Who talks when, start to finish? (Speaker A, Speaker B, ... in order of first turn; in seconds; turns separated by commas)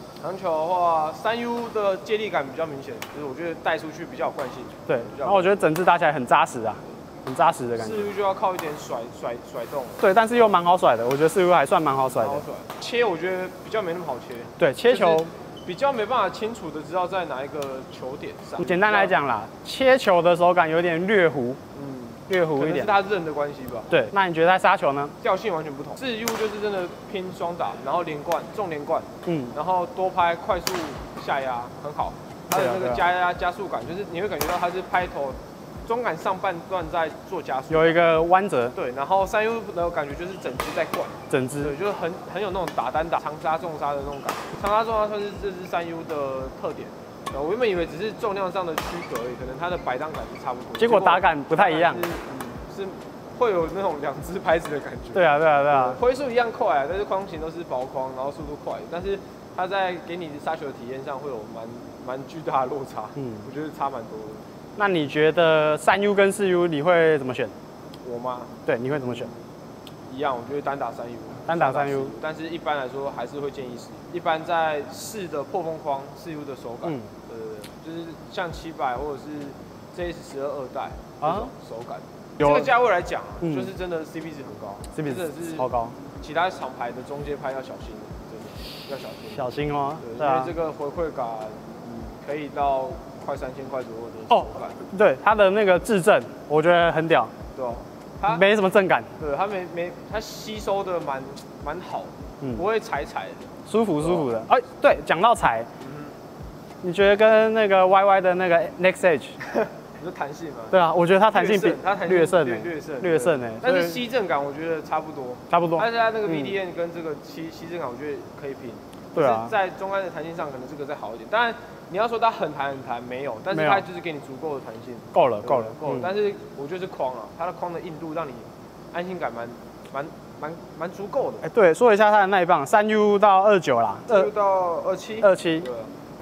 Speaker A: 0.2-5.6, Speaker B: 4.9-8.1, Speaker A: 7.8-10.0, Speaker B: 10.0-12.4, Speaker A: 12.2-19.2, Speaker B: 14.6-15.3, Speaker B: 18.6-21.6, Speaker A: 21.7-24.0, Speaker B: 22.3-22.9, Speaker B: 23.9-25.1, Speaker A: 25.2-38.0, Speaker B: 29.3-29.6, Speaker B: 32.5-33.0, Speaker B: 37.7-38.8, Speaker A: 38.8-64.5, Speaker B: 41.3-41.7, Speaker B: 50.8-52.1, Speaker B: 55.1-56.0, Speaker B: 63.2-63.5, Speaker B: 64.8-67.5, Speaker A: 68.0-69.4, Speaker B: 68.7-69.3, Speaker A: 70.1-85.7, Speaker B: 71.5-72.1, Speaker B: 76.8-77.1, Speaker B: 81.2-81.5, Speaker B: 82.4-82.7, Speaker B: 83.4-83.7, Speaker B: 84.9-86.0, Speaker A: 86.2-89.4, Speaker B: 89.3-90.5, Speaker A: 90.0-94.8, Speaker B: 94.3-97.3, Speaker A: 97.5-98.4, Speaker B: 98.3-99.1, Speaker A: 99.2-104.3, Speaker B: 103.7-105.7, Speaker A: 105.8-106.1, Speaker B: 106.8-109.4, Speaker A: 109.9-110.8, Speaker B: 110.7-114.0, Speaker A: 111.3-131.5, Speaker B: 115.5-116.5, Speaker B: 119.2-119.5, Speaker B: 123.5-123.8, Speaker B: 125.1-126.1, Speaker B: 131.4-134.3, Speaker A: 134.1-135.9, Speaker B: 135.2-135.7